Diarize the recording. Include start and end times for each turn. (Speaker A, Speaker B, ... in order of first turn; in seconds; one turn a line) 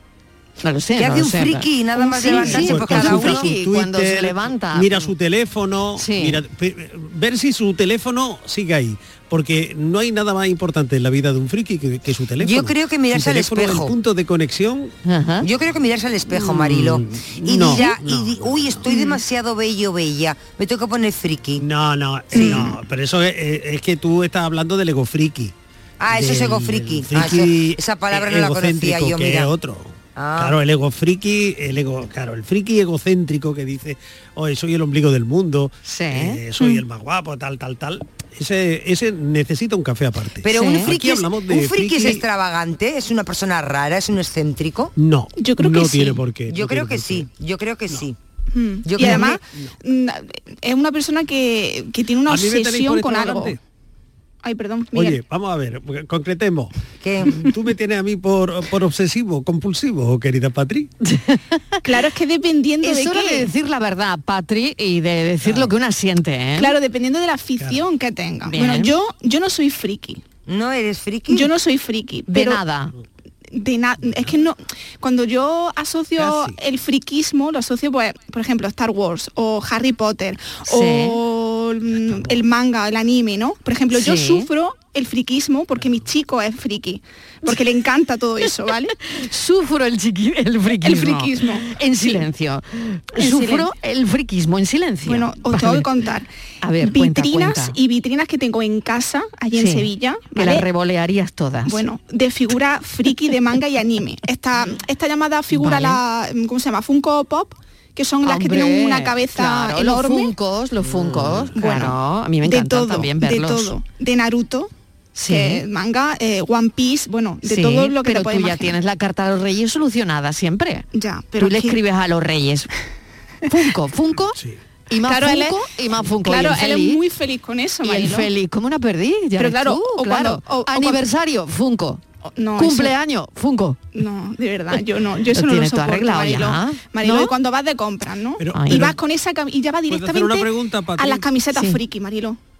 Speaker A: 0.6-5.1
Speaker B: 1.0-3.5
Speaker C: 2.2-14.9
Speaker A: 6.0-6.4
Speaker B: 12.4-13.9
Speaker A: 15.1-15.5
Speaker B: 15.4-21.6
Speaker C: 16.3-18.9
Speaker D: 18.9-19.2
Speaker C: 21.6-25.5
Speaker B: 22.3-22.7
Speaker B: 26.0-29.5
Speaker C: 26.1-42.2
Speaker B: 30.1-30.6
Speaker A: 35.9-36.4
Speaker B: 40.4-44.9
Speaker A: 40.5-40.9
Speaker C: 45.0-47.3
Speaker D: 45.4-46.2
Speaker B: 46.5-48.1
Speaker D: 48.5-53.5
Speaker B: 48.8-49.4
Speaker C: 49.0-49.7
Speaker C: 52.3-53.6
Speaker D: 54.4-55.2
Speaker C: 54.9-60.9
Speaker B: 57.0-57.4
Speaker A: 61.1-61.8
Speaker D: 61.8-63.5
Speaker A: 62.8-66.8
Speaker C: 65.4-65.7
Speaker D: 66.6-70.2
Speaker C: 67.6-67.8
Speaker A: 68.5-68.9
Speaker B: 70.5-71.5
Speaker D: 71.3-72.6
Speaker A: 72.3-72.9
Speaker D: 73.5-88.9
Speaker C: 74.0-74.3
Speaker C: 76.2-76.6
Speaker A: 80.7-81.2
Speaker C: 81.9-82.4
Speaker A: 83.9-84.5
Speaker A: 89.0-95.9
Speaker D: 90.8-91.7
Speaker D: 93.2-93.7
Speaker D: 95.0-96.3
Speaker A: 96.6-97.8
Speaker D: 96.8-100.7
Speaker A: 99.5-101.8
Speaker D: 101.7-110.3
Speaker A: 105.5-106.0
Speaker A: 108.2-113.7
Speaker C: 111.1-111.5
Speaker D: 111.5-114.7
Speaker A: 115.2-115.6
Speaker D: 115.3-118.7
Speaker A: 117.4-120.8
Speaker D: 120.9-121.8
Speaker A: 121.4-122.7
Speaker A: 123.5-124.4
Speaker A: 124.9-127.0
Speaker D: 125.0-128.3
Speaker A: 127.8-132.0
Speaker D: 129.4-131.0
Speaker D: 132.3-132.9
Speaker A: 132.6-133.8
Speaker D: 133.9-142.4
Speaker A: 135.3-137.3
Speaker C: 138.4-139.0
Speaker A: 138.5-138.9
Speaker C: 139.9-141.3